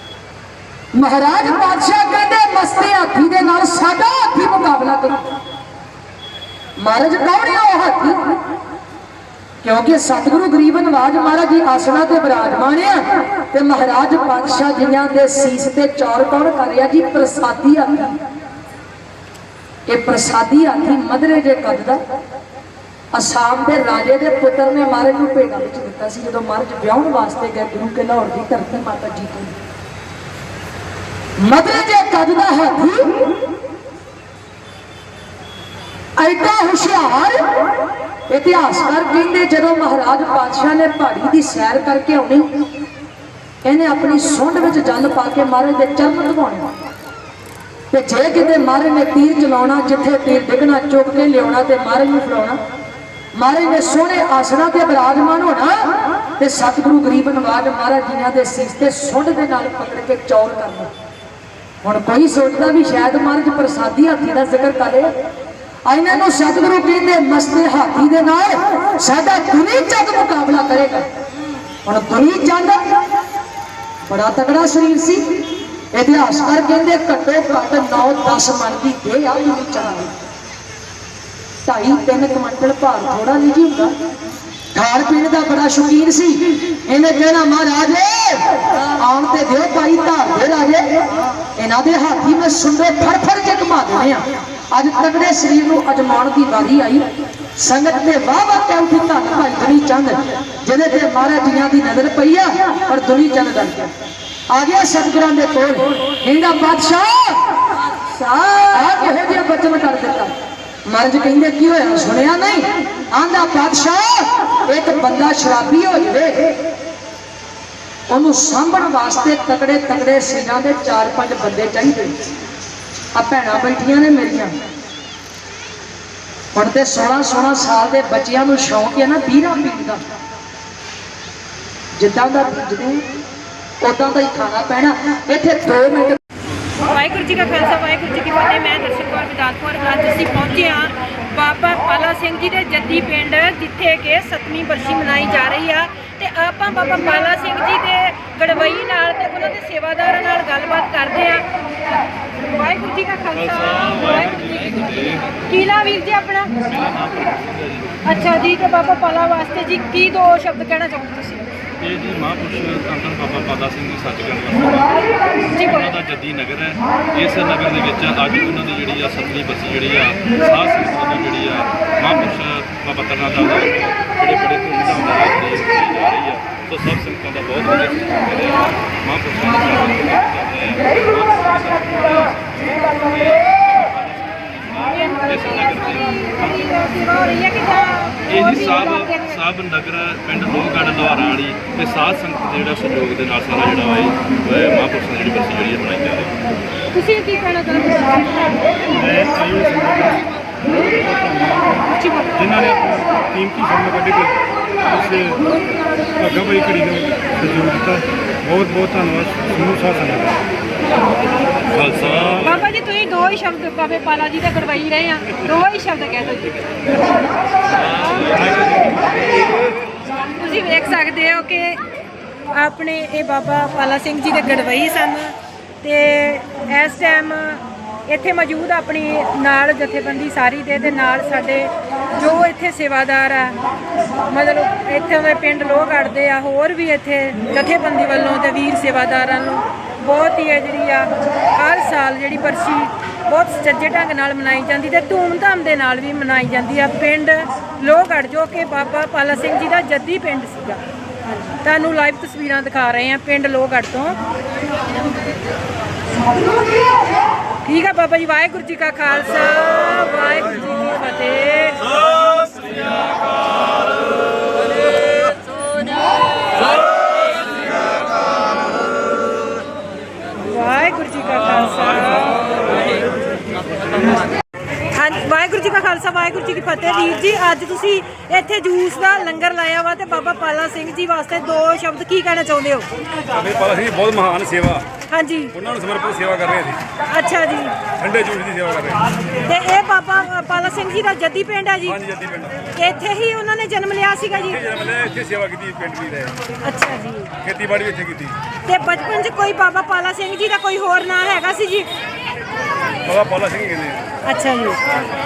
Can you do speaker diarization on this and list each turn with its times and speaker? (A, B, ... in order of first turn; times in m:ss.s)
0:00.9-0:05.3 A
0:06.8-0:08.4 A
0:09.6-0:18.2 A
0:19.9-0:22.0 A
0:23.1-0:29.6 A
0:31.4-0:33.3 A
0:36.2-0:37.7 A
0:38.3-0:42.5 A
0:43.6-0:46.7 A
0:47.9-0:52.6 A
0:53.3-1:00.9 A
1:01.8-1:05.1 A
1:05.8-1:11.0 A
1:11.8-1:13.0 A
1:14.0-1:20.1 A
1:21.6-1:23.9 A
1:24.7-1:31.0 A
1:31.6-1:43.9 A
1:44.5-1:47.5 A
1:48.1-1:50.3 A
1:50.9-1:56.6 A
1:58.1-2:02.1 A
2:03.1-2:04.5 A
2:06.5-2:10.0 A
2:12.0-2:13.0 A
2:13.8-2:16.2 A
2:16.8-2:31.4 B
2:32.4-2:34.6 B
2:33.4-2:35.4 C
2:35.5-2:36.6 B
2:36.6-2:38.0 C
2:38.0-2:41.4 B
2:41.8-2:45.0 C
2:45.5-2:45.9 B
2:45.6-3:06.4 C
3:05.2-3:09.4 B
3:08.3-3:16.3 C
3:16.9-3:18.3 B
3:19.0-3:20.2 D
3:20.9-3:21.9 D
3:21.9-3:22.4 B
3:22.4-3:25.5 D
3:26.2-3:30.4 D
3:31.7-3:32.6 C
3:32.4-3:36.6 B
3:38.0-3:38.6 C
3:40.3-3:41.8 B
3:42.5-3:53.6 B
3:54.2-4:14.2 B
4:17.6-4:22.0 B
4:30.4-4:32.5 B
4:34.9-4:42.9 B
4:43.3-4:44.8 D
4:43.4-4:44.8 C
4:45.1-4:45.6 B
4:45.6-4:46.8 C
4:45.9-4:46.8 D
4:47.0-4:47.8 B
4:48.0-4:48.9 C
4:48.3-4:49.0 D
4:49.3-4:52.0 B
4:52.1-4:52.6 D
4:52.2-4:52.5 C
4:52.7-4:54.8 B
4:54.7-4:56.3 C
4:55.3-4:56.3 D
4:56.6-4:57.4 B
4:57.4-4:58.3 D
4:57.5-4:57.8 C
4:58.6-5:01.9 B
5:03.1-5:04.0 D
5:03.1-5:03.9 C
5:04.2-5:04.8 B